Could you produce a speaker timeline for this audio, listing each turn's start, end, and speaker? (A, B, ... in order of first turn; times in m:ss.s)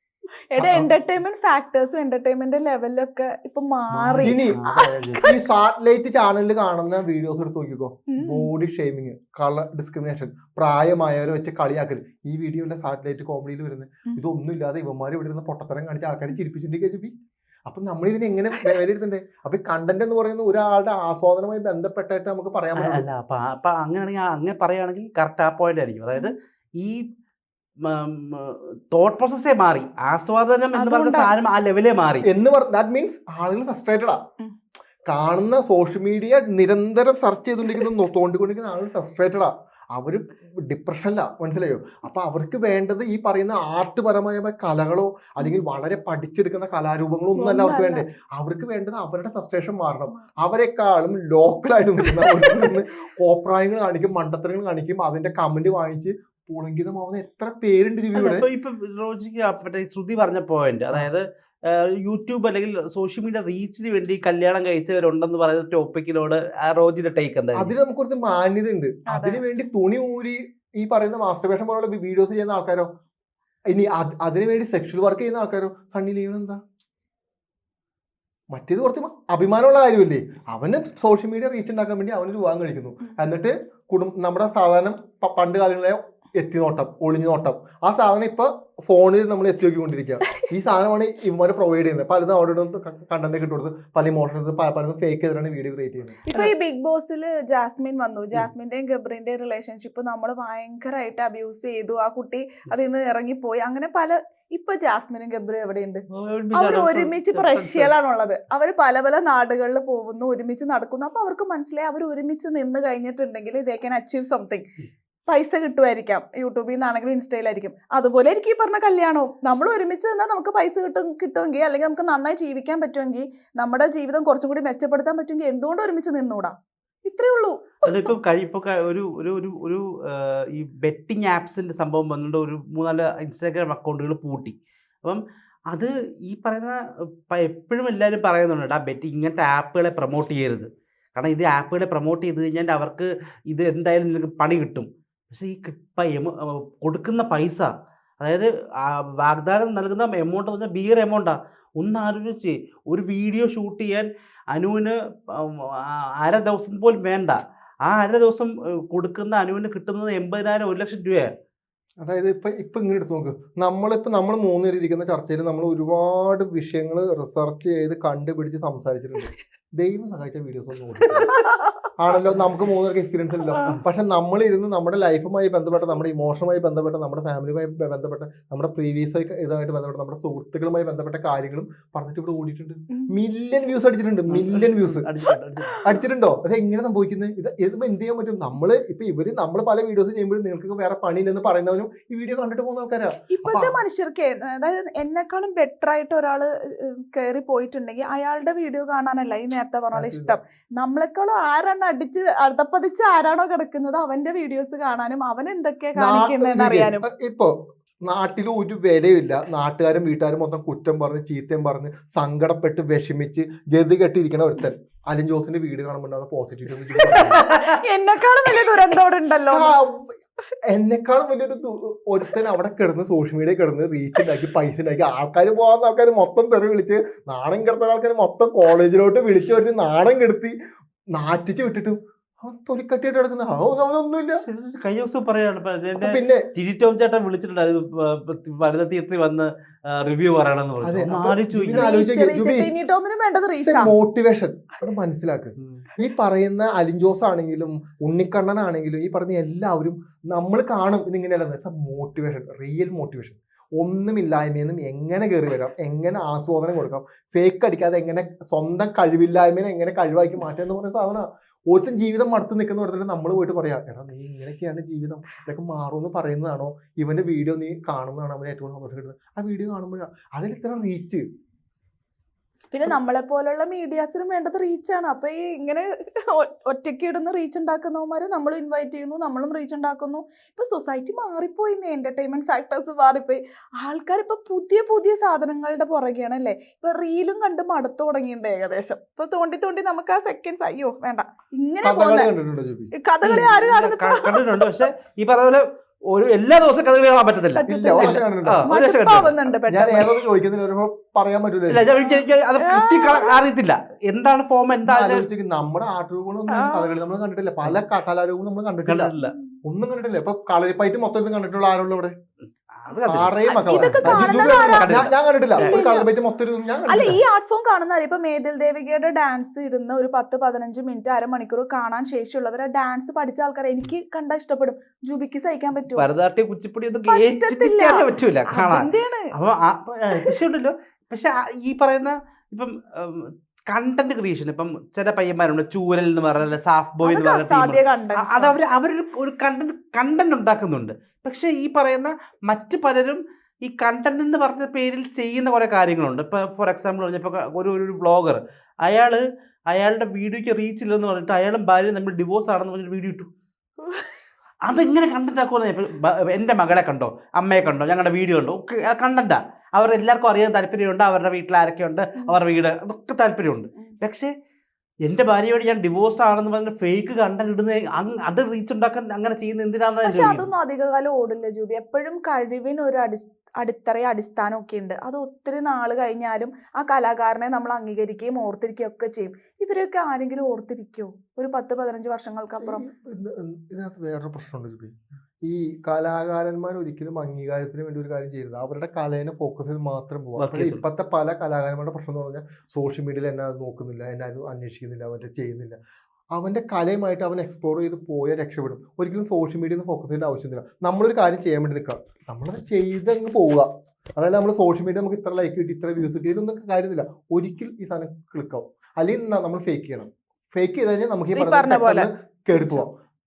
0:00.5-0:05.4 A
0:00.6-0:00.9 B
0:04.0-0:04.7 B
0:04.2-0:05.3 C
0:05.2-0:17.1 B
0:08.1-0:08.5 A
0:17.7-0:23.0 B
0:22.8-0:27.0 C
0:27.8-0:32.2 C
0:30.7-0:31.3 A
0:32.2-0:34.2 B
0:35.1-0:58.4 B
0:47.4-0:48.0 A
0:52.2-0:52.7 A
0:58.1-1:07.7 C
1:07.5-1:12.9 B
1:09.1-1:09.4 A
1:13.7-1:16.6 B
1:18.5-1:36.2 B
1:36.2-1:54.6 A
1:46.1-1:47.9 C
1:55.3-2:06.5 A
2:07.0-2:08.0 A
2:07.8-2:41.3 C
2:42.0-2:51.4 B
2:52.0-3:05.0 B
3:04.3-3:05.8 C
3:05.8-3:13.8 B
3:13.3-3:27.1 A
3:19.9-3:20.4 B
3:26.0-3:37.4 B
3:37.2-3:39.7 A
3:37.2-3:37.7 C
3:39.5-3:40.2 B
3:40.7-3:50.5 B
3:51.1-3:54.4 B
3:54.4-4:01.9 C
3:55.9-3:56.5 B
4:00.8-4:02.7 B
4:01.8-4:03.9 A
4:03.6-4:31.2 B
4:05.6-4:05.8 C
4:32.7-4:52.3 A
4:51.8-4:52.9 B
4:53.0-4:54.9 A
4:53.2-4:59.3 C
4:57.5-5:00.2 A
4:57.7-4:58.7 B
4:59.4-5:01.9 B
5:01.7-5:05.2 C
5:02.0-5:03.4 A
5:04.8-5:09.1 B
5:06.5-5:06.9 A
5:08.9-5:09.4 C
5:09.6-5:12.1 B
5:12.8-5:15.8 C
5:13.1-5:17.2 B
5:13.5-5:14.9 A
5:15.6-5:16.1 A
5:16.9-5:26.0 A
5:25.9-5:53.3 C
5:27.1-5:29.3 A
5:30.1-5:30.4 A
5:37.0-5:38.6 A
5:53.9-5:54.1 A
5:54.6-6:04.3 C
6:05.0-6:10.5 C
6:10.0-6:22.8 A
6:22.6-6:35.8 B
6:30.4-6:30.8 C
6:36.3-6:52.9 B
6:51.4-6:52.9 A